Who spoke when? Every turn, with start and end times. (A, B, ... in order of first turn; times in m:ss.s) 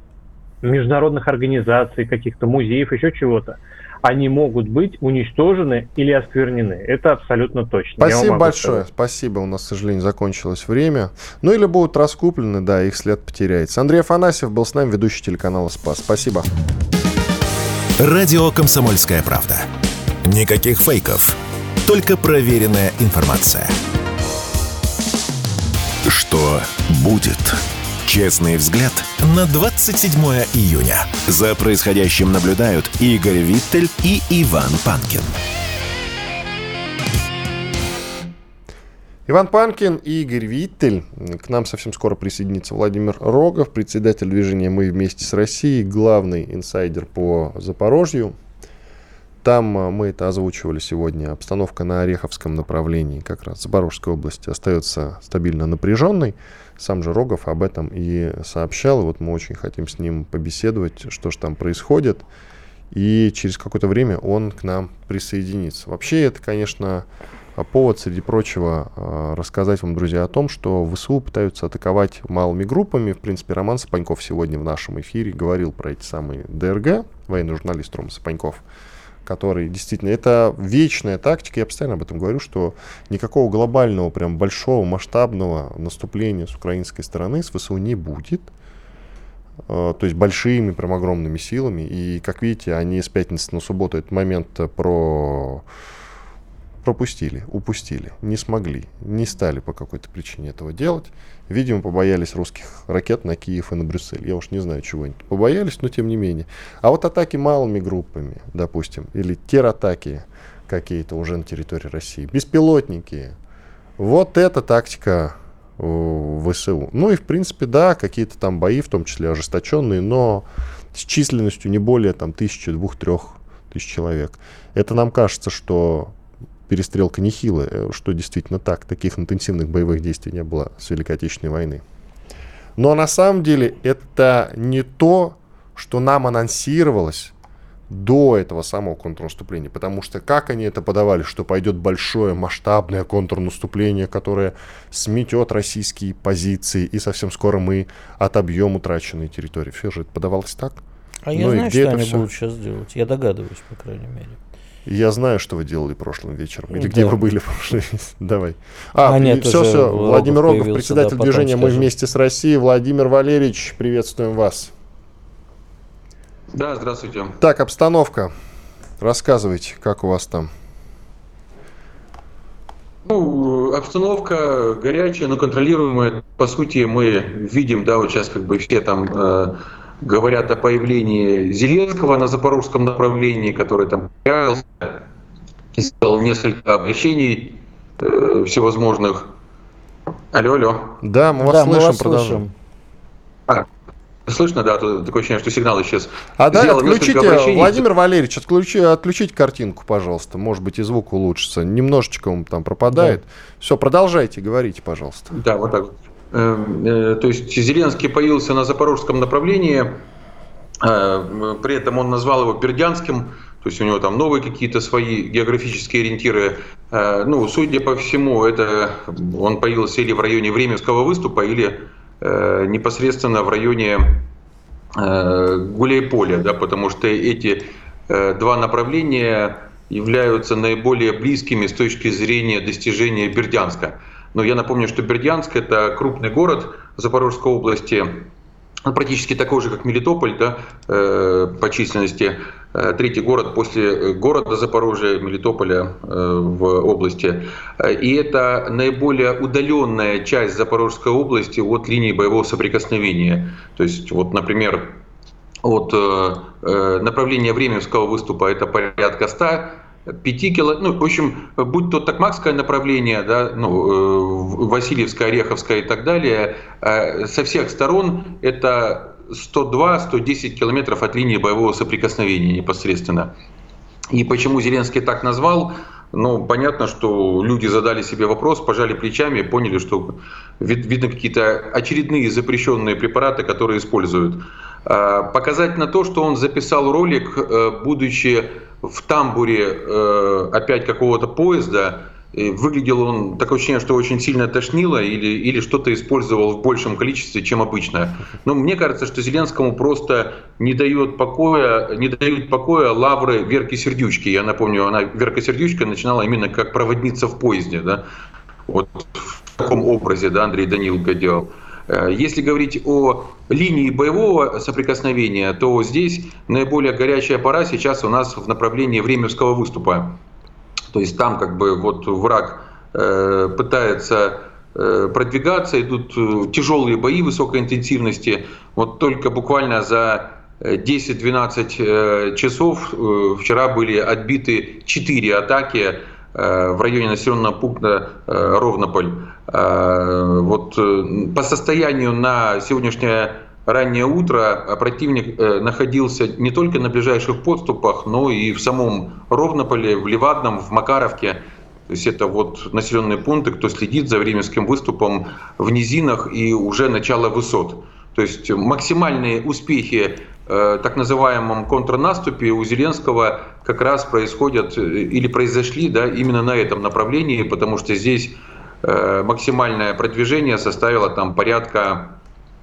0:00.6-0:08.8 A
0:08.0-0:16.5 B
0:18.0-0:19.7 C
0:20.2-0:23.8 C
0:26.1-0:35.3 C
0:39.3-0:48.4 B
0:49.4-1:02.2 B
1:02.9-1:18.6 B
1:19.2-1:28.5 B
1:29.7-1:35.6 B
1:36.8-1:53.4 B
1:54.0-2:06.2 B
2:06.7-2:11.8 B
2:12.8-2:17.3 B
2:17.9-2:30.8 B
2:31.3-2:34.4 D
2:31.3-2:32.3 B
2:34.9-2:44.7 B
2:36.7-2:37.2 D
2:39.0-2:41.9 D
2:46.5-2:47.4 E
2:47.4-2:48.3 B
2:49.0-2:50.5 B
2:53.1-3:05.0 E
3:05.8-3:09.3 E
3:10.3-3:11.0 E
3:11.0-3:12.4 B
3:11.4-3:12.5 D
3:14.3-3:17.8 E
3:16.4-3:25.3 B
3:25.3-3:30.0 E
3:30.8-3:44.3 E
3:45.0-3:58.3 E
3:58.9-4:15.0 E
4:15.6-4:33.3 E
4:34.1-5:08.1 E
5:08.7-5:20.2 E
5:20.9-6:12.2 E